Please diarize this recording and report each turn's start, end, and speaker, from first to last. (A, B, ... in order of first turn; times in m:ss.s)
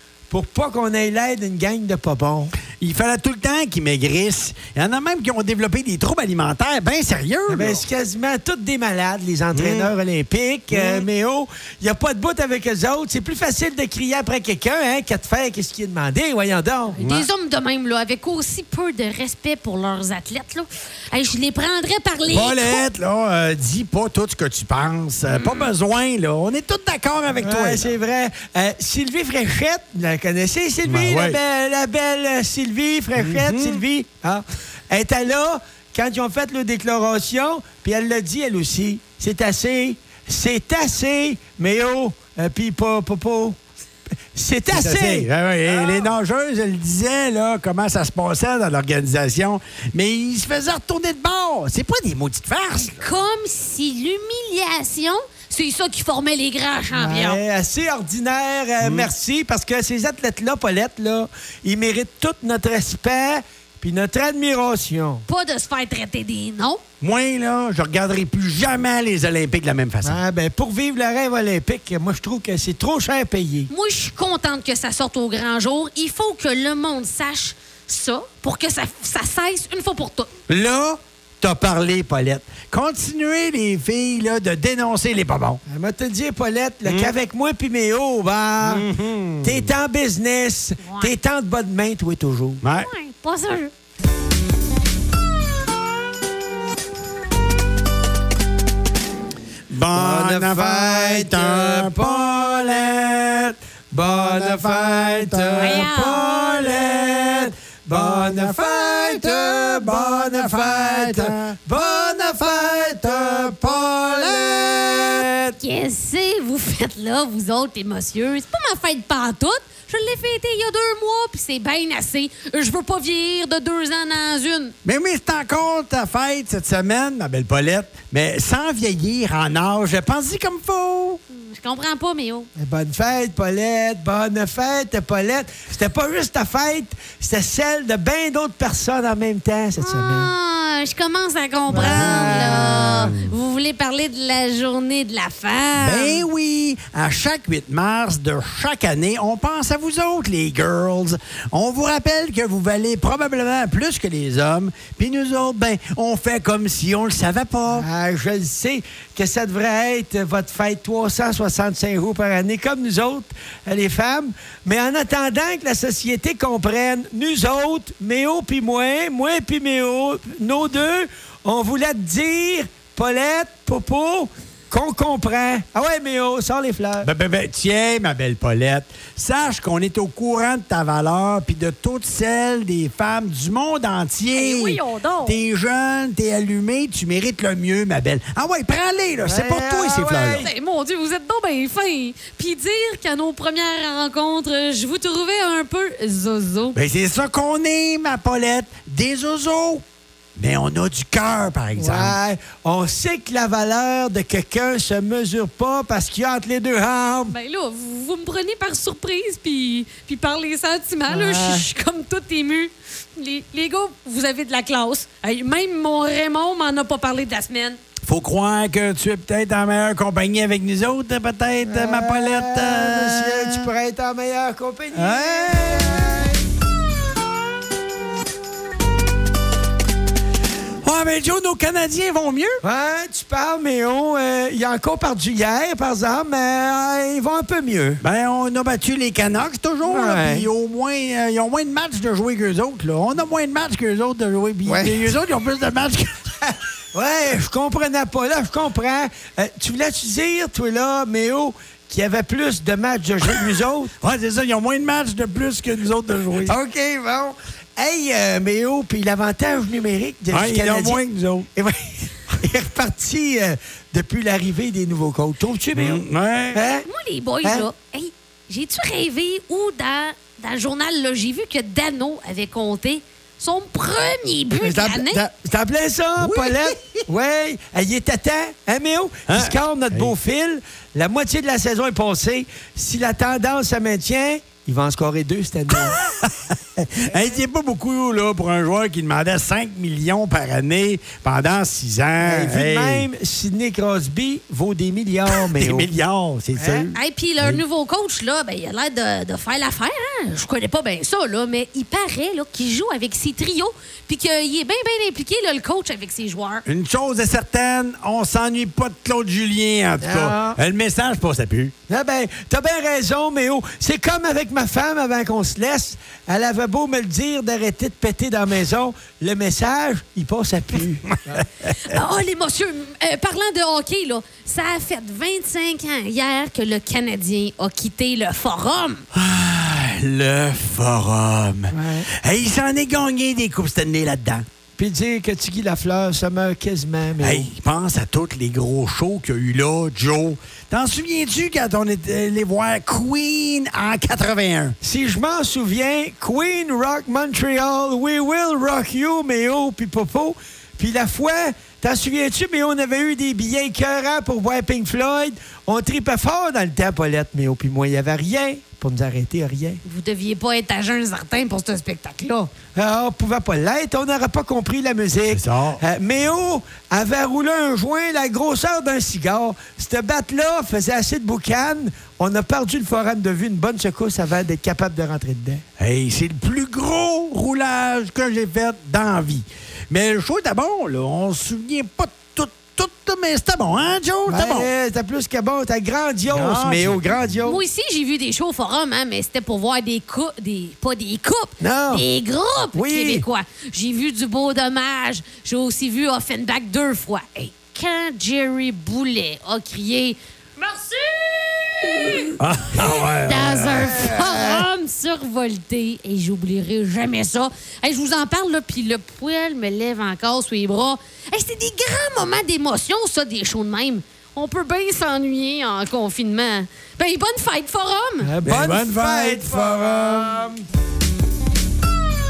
0:00.3-0:02.5 A
0:02.8-0:07.8 B
0:07.5-0:17.0 A
0:09.5-0:09.9 B
0:10.7-0:11.1 B
0:17.0-0:22.8 C
0:17.0-0:17.3 B
0:22.3-0:27.9 B
0:25.3-0:25.7 C
0:27.4-0:43.6 A
0:30.8-0:31.4 B
0:33.2-0:33.8 B
0:44.3-0:46.1 A
0:44.7-0:53.0 B
0:52.7-0:57.4 C
0:56.9-1:05.2 A
0:58.8-0:59.1 B
1:05.3-1:06.8 C
1:07.0-1:10.2 B
1:10.0-1:13.7 A
1:13.7-1:20.3 C
1:20.5-1:25.6 B
1:25.6-1:28.9 A
1:26.8-1:27.1 B
1:28.6-1:29.7 B
1:29.4-1:32.6 A
1:30.8-1:31.1 C
1:32.6-1:32.9 B
1:32.8-1:33.7 C
1:39.7-1:43.5 B
1:39.9-1:42.9 A
1:43.9-1:55.3 A
1:44.1-1:55.5 B
1:45.6-1:46.2 C
1:55.6-2:04.7 C
2:04.8-2:11.2 B
2:11.3-2:12.5 C
2:12.6-2:20.3 A
2:19.8-2:26.2 C
2:21.7-2:23.3 B
2:21.7-2:23.1 A
2:25.8-2:37.9 B
2:37.7-2:57.1 A
2:57.0-3:10.5 B
3:04.3-3:05.3 C
3:09.2-3:10.5 A
3:10.4-3:16.8 C
3:16.7-3:19.8 B
3:20.4-3:22.2 B
3:21.8-3:27.3 A
3:27.3-3:37.8 C
3:31.1-3:31.6 A
3:38.0-3:43.7 B
3:41.6-3:46.4 A
3:44.9-3:46.4 B
3:50.8-3:52.6 B
3:52.6-3:58.0 A
3:58.0-4:06.3 B
3:59.8-4:00.5 A
4:04.6-4:05.1 A
4:06.9-4:13.9 A
4:14.0-4:16.6 B
4:16.4-4:21.0 A
4:20.3-4:21.5 B
4:21.6-4:26.0 A
4:25.7-4:26.6 B
4:26.5-4:26.9 A
4:26.8-4:35.2 C
4:34.6-4:46.0 A
4:36.2-4:37.0 B
4:39.3-4:40.1 B
4:45.7-4:53.1 B
4:52.2-4:55.9 A
4:55.3-4:57.6 B
4:56.5-4:56.9 A
4:56.9-5:06.6 C
5:06.6-5:11.7 B
5:10.0-5:10.6 A
5:11.9-5:21.4 A
5:21.3-5:21.7 B
5:21.7-5:29.0 C
5:29.1-5:34.4 B
5:31.7-5:32.1 A
5:34.8-5:37.5 A
5:37.2-5:44.7 B
5:44.8-5:59.8 A
5:59.8-6:02.5 C
6:02.7-6:15.6 A
6:05.2-6:05.8 B
6:15.8-6:24.7 B
6:24.3-6:27.6 A
6:26.3-6:27.2 B
6:27.4-6:58.3 C
6:31.6-6:32.0 A
6:32.7-6:33.2 A
6:42.4-6:44.6 B
6:58.2-7:00.6 A
6:58.4-7:00.5 B